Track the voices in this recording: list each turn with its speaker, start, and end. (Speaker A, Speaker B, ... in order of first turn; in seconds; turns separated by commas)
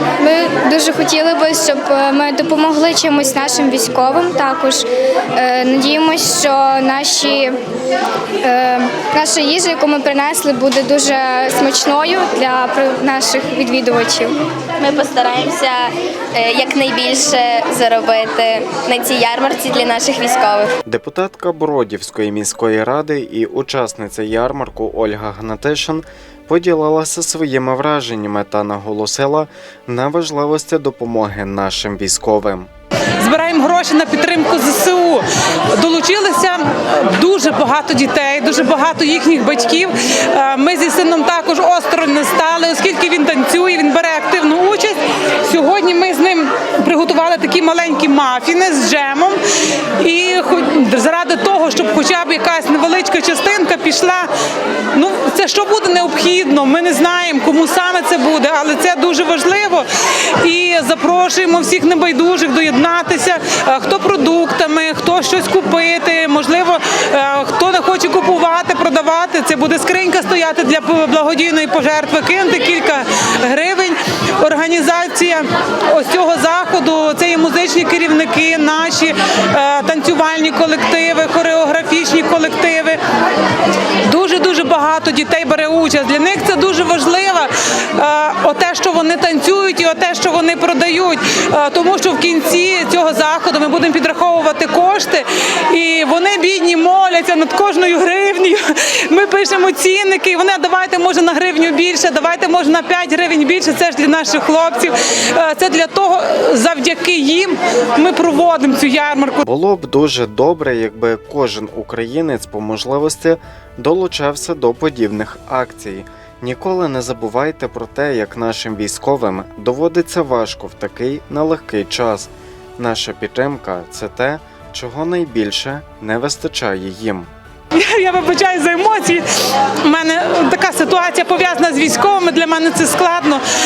Speaker A: 0.2-4.8, Speaker A: 5.3-7.5, Speaker A: 8.4-14.3, Speaker B: 14.8-20.7, Speaker C: 20.8-32.7, Speaker D: 33.2-54.3, Speaker D: 54.9-83.0, Speaker D: 84.0-109.4, Speaker C: 109.4-127.3, Speaker D: 127.7-133.4